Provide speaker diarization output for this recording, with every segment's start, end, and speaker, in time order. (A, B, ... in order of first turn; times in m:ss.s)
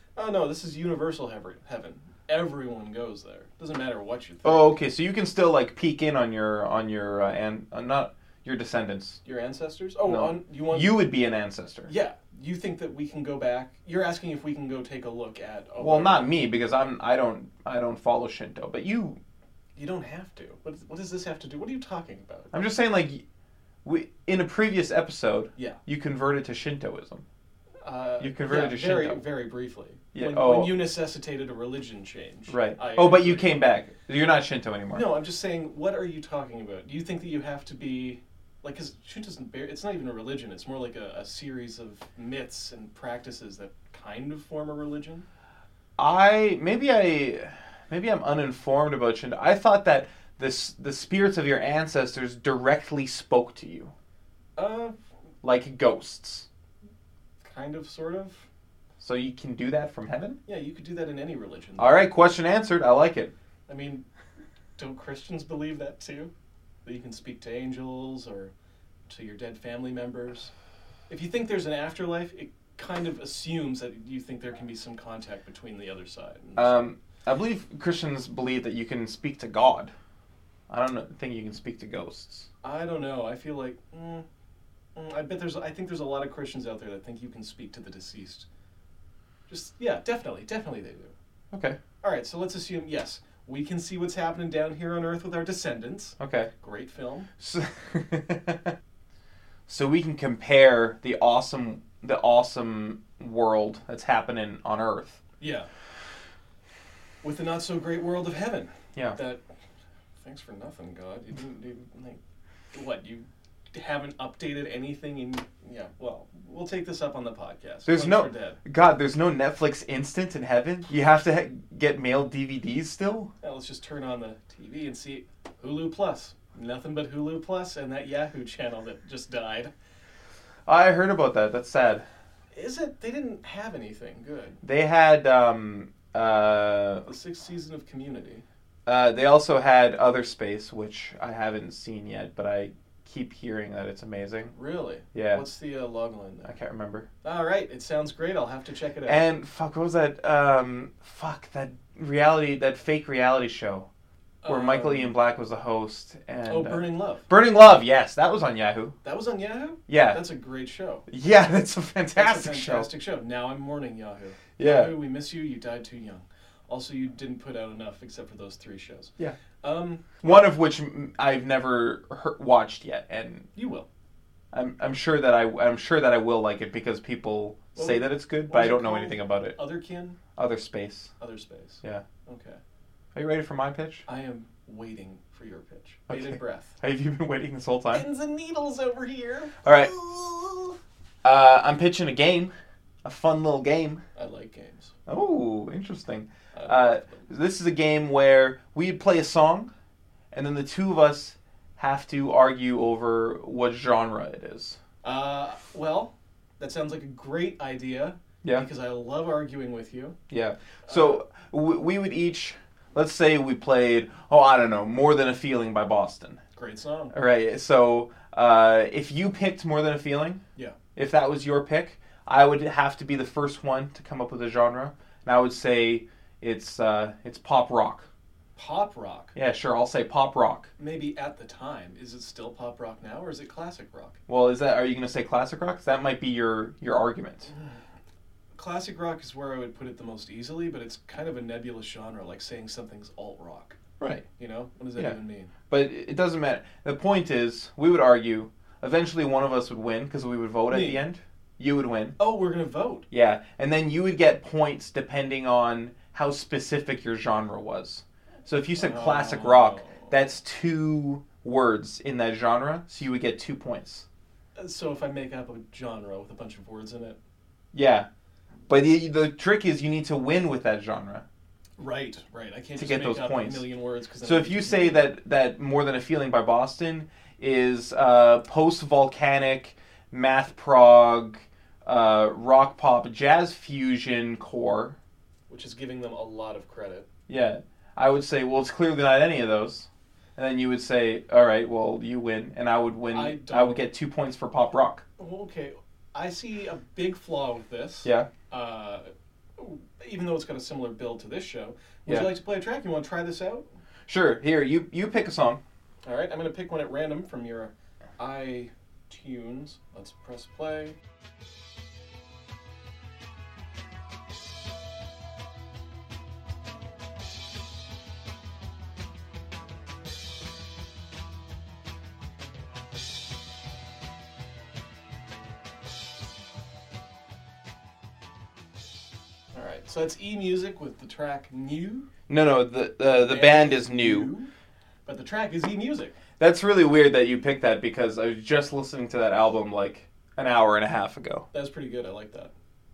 0:00.2-0:04.7 A
0:04.4-0:09.2 B
0:09.2-0:11.0 A
0:10.0-0:11.9 B
0:11.9-0:16.4 A
0:15.8-0:19.2 B
0:19.8-0:22.5 A
0:22.5-0:23.2 B
0:23.8-0:27.2 B
0:27.8-0:33.6 A
0:28.2-0:29.2 B
0:30.1-0:30.8 B
0:32.5-0:35.1 B
0:34.9-0:45.3 A
0:46.0-0:53.9 B
0:54.6-0:55.0 A
0:55.4-0:56.5 B
0:57.4-0:58.5 A
0:59.0-1:00.4 B
1:00.5-1:02.0 A
1:01.8-1:03.3 B
1:03.7-1:04.0 A
1:04.8-1:06.3 A
1:06.8-1:08.5 A
1:09.1-1:10.5 A
1:11.1-1:16.9 A
1:16.6-1:19.9 B
1:20.7-1:22.5 B
1:22.6-1:24.2 A
1:25.0-1:28.5 A
1:29.5-1:31.1 A
1:31.5-1:31.8 B
1:32.0-1:37.3 A
1:36.2-1:36.5 B
1:37.4-1:38.8 B
1:39.7-1:45.2 B
1:45.4-1:45.7 A
1:47.2-1:49.4 A
1:50.2-1:52.2 A
1:52.7-1:58.6 A
1:57.9-2:03.3 B
2:03.4-2:09.7 A
2:10.7-2:12.1 B
2:12.5-2:14.6 A
2:14.6-2:17.1 B
2:17.1-2:18.4 A
2:18.9-2:24.5 B
2:24.5-2:26.5 A
2:25.1-2:25.4 B
2:26.4-2:27.1 B
2:27.2-2:29.3 A
2:29.1-2:33.9 B
2:34.4-2:35.2 A
2:34.5-2:39.0 B
2:36.5-2:37.3 A
2:39.0-2:41.1 A
2:39.9-2:40.2 B
2:41.1-2:42.9 B
2:42.2-2:50.2 A
2:44.6-2:44.9 B
2:50.2-2:53.5 B
2:53.6-2:53.9 A
2:54.5-2:59.6 B
2:57.8-3:00.2 A
3:00.4-3:01.1 B
3:01.2-3:02.6 A
3:03.1-3:04.0 B
3:04.1-3:06.8 A
3:06.1-3:08.0 B
3:07.9-3:10.7 A
3:09.6-3:10.0 B
3:11.2-3:12.5 B
3:13.0-3:14.0 B
3:14.2-3:14.9 A
3:15.1-3:19.7 B
3:16.5-3:17.3 A
3:20.3-3:24.8 B
3:25.0-3:30.2 A
3:30.3-3:36.4 B
3:30.9-3:31.2 A
3:36.6-3:37.2 A
3:37.1-3:40.4 B
3:41.0-3:48.1 B
3:48.6-3:49.4 A
3:49.4-3:50.7 B
3:50.8-3:54.2 A
3:54.3-3:57.5 B
3:57.5-3:57.8 A
3:58.6-4:03.8 A
4:04.0-4:04.3 B
4:04.3-4:05.5 A
4:05.7-4:12.2 B
4:10.7-4:11.0 A
4:12.2-4:13.1 A
4:13.1-4:24.1 B
4:18.8-4:20.1 A
4:24.6-4:27.2 A
4:27.7-4:28.1 B
4:28.7-4:31.2 B
4:31.8-4:35.1 A
4:32.8-4:33.6 B
4:34.2-4:45.0 B
4:45.5-4:47.1 A
4:47.3-4:55.0 B
4:53.1-4:53.9 A
4:55.2-5:03.7 A
4:58.0-4:58.3 B
5:02.1-5:02.3 B
5:04.1-5:05.6 B
5:06.0-5:11.0 A
5:29.5-5:32.1 A
5:32.3-5:34.3 B
5:33.1-5:34.5 A
5:35.1-5:36.2 A
5:36.4-5:41.4 B
5:41.5-5:42.5 A